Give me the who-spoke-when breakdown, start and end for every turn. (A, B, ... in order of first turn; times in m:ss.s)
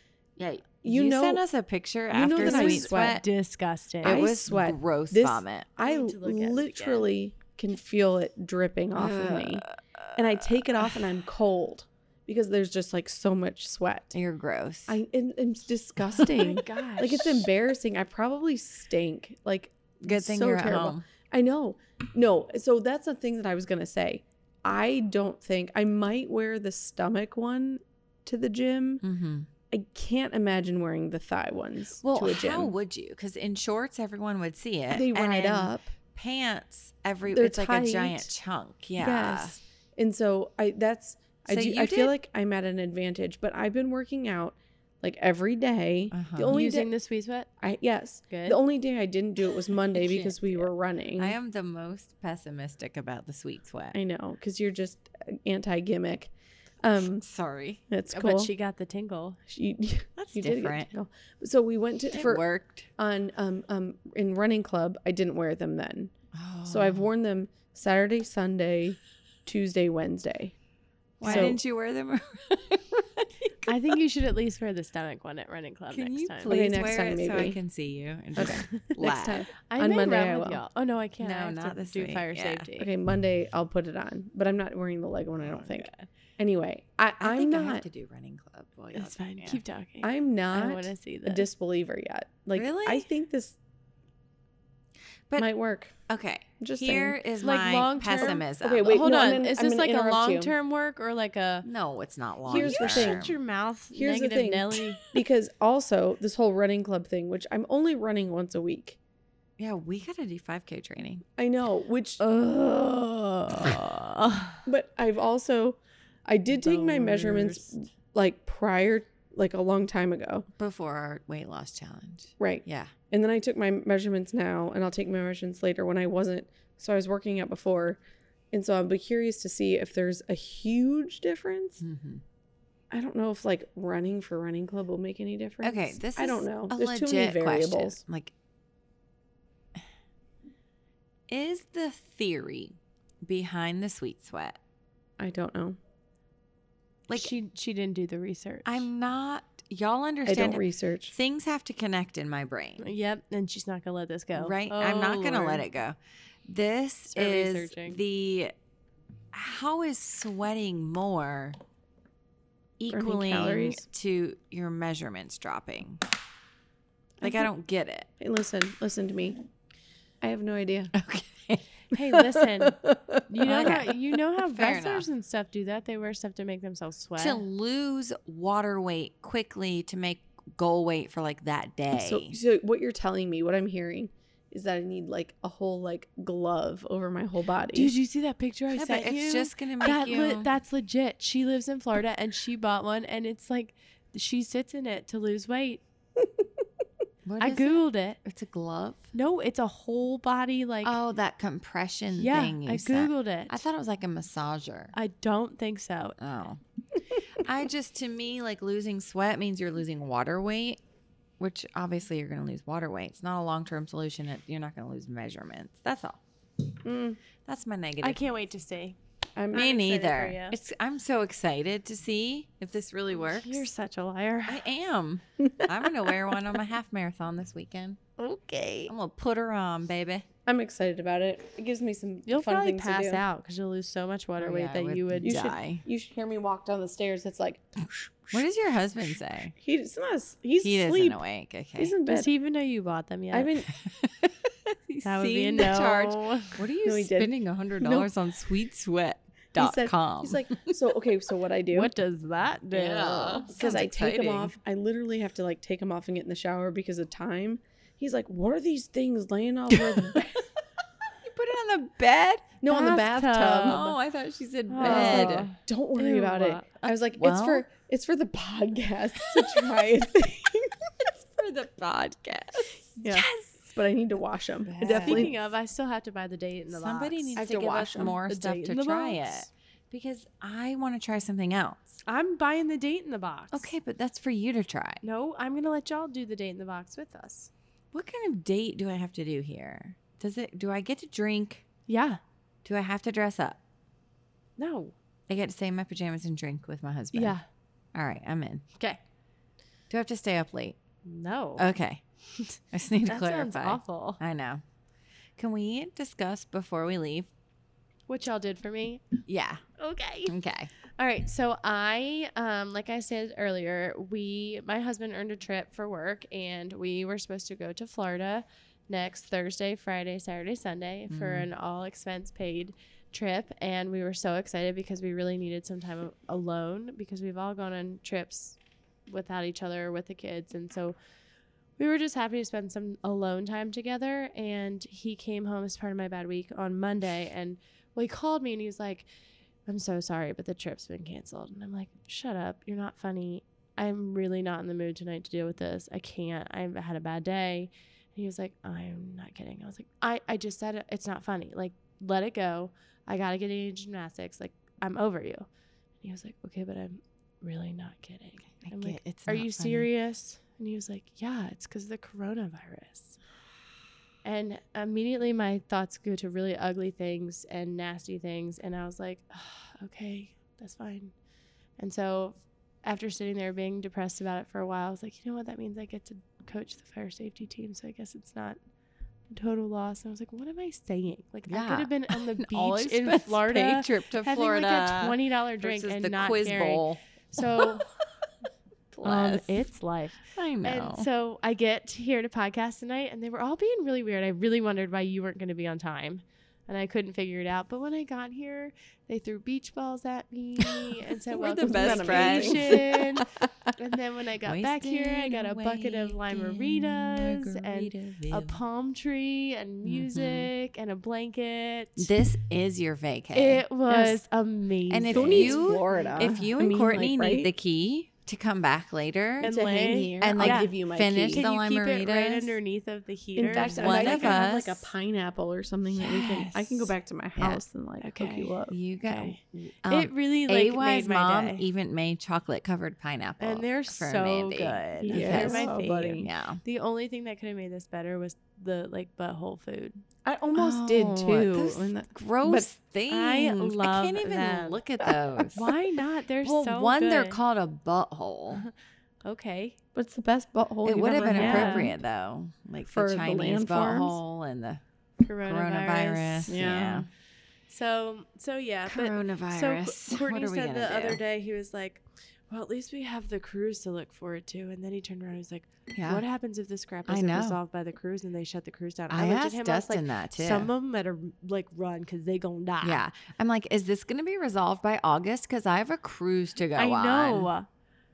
0:00.4-0:03.2 A
0:00.8-0:01.4 B
0:02.1-0:03.2 B
0:02.4-0:04.3 C
0:04.0-0:05.7 A
0:04.0-0:14.2 B
0:05.8-0:07.1 C
0:09.0-0:10.2 A
0:14.1-0:15.0 A
0:14.9-0:29.0 B
0:16.3-0:17.3 C
0:20.0-0:21.0 A
0:29.0-0:29.5 A
0:29.7-0:32.7 B
0:32.0-0:39.6 A
0:34.9-0:35.9 B
0:37.3-0:38.3 B
0:39.0-0:46.9 B
0:41.5-0:42.2 A
0:46.1-0:46.6 A
0:46.5-0:47.5 C
0:47.6-0:51.4 B
0:48.3-0:48.6 C
0:50.0-0:50.6 A
0:51.2-0:54.0 A
0:53.9-0:56.3 B
0:56.8-0:57.3 B
0:57.2-0:57.8 A
0:57.9-0:58.5 B
0:58.1-0:59.4 C
0:59.5-1:02.4 B
1:00.2-1:00.9 A
1:02.1-1:02.9 A
1:03.0-1:06.1 B
1:06.3-1:07.1 A
1:06.7-1:10.5 B
1:11.2-1:13.7 A
1:11.2-1:11.6 B
1:11.3-1:11.5 C
1:13.6-1:16.8 C
1:15.9-1:19.5 A
1:16.5-1:17.6 B
1:18.4-1:20.6 B
1:19.6-1:22.9 C
1:21.2-1:22.7 A
1:22.8-1:27.8 B
1:25.4-1:25.9 A
1:27.2-1:29.6 A
1:28.9-1:31.5 C
1:30.0-1:33.6 B
1:32.5-1:33.1 A
1:35.4-1:36.0 B
1:36.1-1:39.0 A
1:36.6-1:37.2 B
1:37.4-1:41.7 C
1:38.6-1:40.6 B
1:41.6-1:43.4 A
1:42.5-1:43.3 B
1:42.5-1:45.0 C
1:43.9-1:49.0 B
1:49.6-1:51.2 A
1:51.4-1:53.8 B
1:52.2-1:54.6 C
1:54.7-2:00.5 B
1:56.6-1:57.7 C
2:00.6-2:02.9 A
2:02.4-2:08.0 B
2:08.5-2:11.8 B
2:11.8-2:12.2 A
2:12.9-2:18.0 B
2:15.6-2:18.3 A
2:21.3-2:24.6 A
2:25.2-2:25.8 B
2:27.1-2:28.9 C
2:28.6-2:32.9 A
2:30.3-2:31.1 B
2:32.8-2:35.6 C
2:34.4-2:38.5 A
2:37.1-2:38.0 C
2:39.3-2:41.6 A
2:42.8-2:46.0 A
2:42.9-2:43.8 B
2:47.2-2:48.1 A
2:48.2-2:49.4 B
2:50.2-2:50.9 B
2:50.9-2:51.7 A
2:51.9-2:57.4 C
2:52.1-2:53.7 B
2:53.4-2:55.1 A
2:57.2-3:02.4 A
3:01.9-3:07.9 B
3:07.7-3:15.8 C
3:08.7-3:10.5 A
3:17.2-3:19.1 A
3:17.4-3:18.2 C
3:19.1-3:21.0 C
3:20.8-3:24.9 A
3:22.1-3:23.6 C
3:24.9-3:26.2 C
3:26.2-3:26.6 A
3:27.2-3:30.8 A
3:31.4-3:36.2 A
3:36.8-3:37.2 B
3:37.4-3:38.2 A
3:38.0-3:39.0 C
3:39.4-3:39.7 B
3:39.5-3:40.6 C
3:39.5-3:43.7 A
3:43.2-3:44.6 C
3:44.5-3:48.0 A
3:45.4-3:45.7 B
3:48.2-3:48.9 C
3:48.9-3:50.3 A
3:50.5-3:53.2 B
3:52.3-3:55.5 C
3:54.4-3:55.8 A
3:55.2-3:58.4 B
3:58.3-3:59.5 A
3:59.6-4:01.2 B
4:00.6-4:02.0 A
4:01.8-4:02.3 B
4:02.1-4:03.5 C
4:03.3-4:03.7 B
4:03.8-4:10.7 A
4:05.0-4:06.6 C
4:06.8-4:08.1 B
4:09.6-4:11.9 B
4:11.7-4:13.6 C
4:12.7-4:14.5 A
4:13.5-4:20.5 B
4:19.7-4:20.2 A
4:21.2-4:22.6 A
4:22.6-4:23.9 B
4:22.7-4:23.9 C
4:23.6-4:25.5 A
4:24.7-4:26.9 C
4:24.8-4:31.1 B
4:27.2-4:27.6 A
4:29.2-4:29.6 A
4:31.4-4:33.2 A
4:33.0-4:35.4 B
4:33.1-4:33.4 C
4:34.6-4:35.3 A
4:34.8-4:37.4 C
4:36.7-4:42.0 A
4:37.4-4:38.2 B
4:38.0-4:39.5 C
4:42.0-4:43.8 C
4:43.5-4:45.0 A
4:45.0-4:47.5 C
4:47.9-4:51.7 A
4:51.9-4:52.2 C
4:52.6-4:53.6 A
4:54.6-4:55.0 C
4:55.3-4:57.4 A
4:57.1-4:57.4 C
4:57.9-4:58.6 A
4:59.9-5:00.8 A
5:01.0-5:01.7 C
5:01.6-5:02.0 A
5:02.4-5:04.2 C
5:02.7-5:04.6 A
5:05.4-5:07.3 A
5:08.1-5:09.0 C
5:09.3-5:09.6 A
5:09.8-5:10.4 C
5:10.3-5:10.7 A
5:11.0-5:31.0 C
5:21.1-5:21.5 A
5:31.8-5:39.1 C
5:39.7-5:55.5 C
5:56.0-6:03.2 C
5:58.6-5:59.9 A
6:04.2-6:11.2 C
6:11.8-6:18.6 C
6:19.3-6:27.9 C
6:21.5-6:28.2 A
6:28.9-6:29.6 A
6:29.0-6:52.1 C
6:30.3-6:31.1 A
6:40.6-6:43.1 A
6:41.6-6:43.0 B
6:44.4-6:48.6 A
6:49.8-6:50.5 A
6:52.0-6:53.6 A
6:53.3-6:56.5 C
6:53.9-6:54.2 B
6:54.9-6:59.5 A
6:55.1-6:57.5 B
6:59.4-7:00.7 C
6:59.4-7:01.4 B
7:00.2-7:02.6 A
7:01.3-7:04.5 C
7:03.4-7:08.8 B
7:03.5-7:04.9 A
7:06.0-7:06.5 A
7:06.2-7:06.8 C
7:07.4-7:07.6 A
7:08.0-7:11.6 C
7:08.7-7:16.6 A
7:13.4-7:20.0 C
7:15.0-7:16.3 B
7:20.2-7:22.7 B
7:20.6-7:25.7 A
7:23.1-7:24.8 C
7:25.5-7:27.4 C
7:26.4-7:28.6 A
7:29.2-7:29.8 C
7:30.0-7:31.9 B
7:30.8-7:34.8 A
7:31.2-7:31.9 C
7:32.9-7:34.2 B
7:35.2-7:36.6 C
7:35.4-7:37.1 A
7:36.5-7:37.1 B
7:37.7-7:53.0 C
7:38.9-7:41.2 A
7:45.9-7:46.2 A
7:47.1-7:47.6 A
7:49.1-7:50.7 A
7:52.8-7:57.5 A
7:56.8-7:57.7 C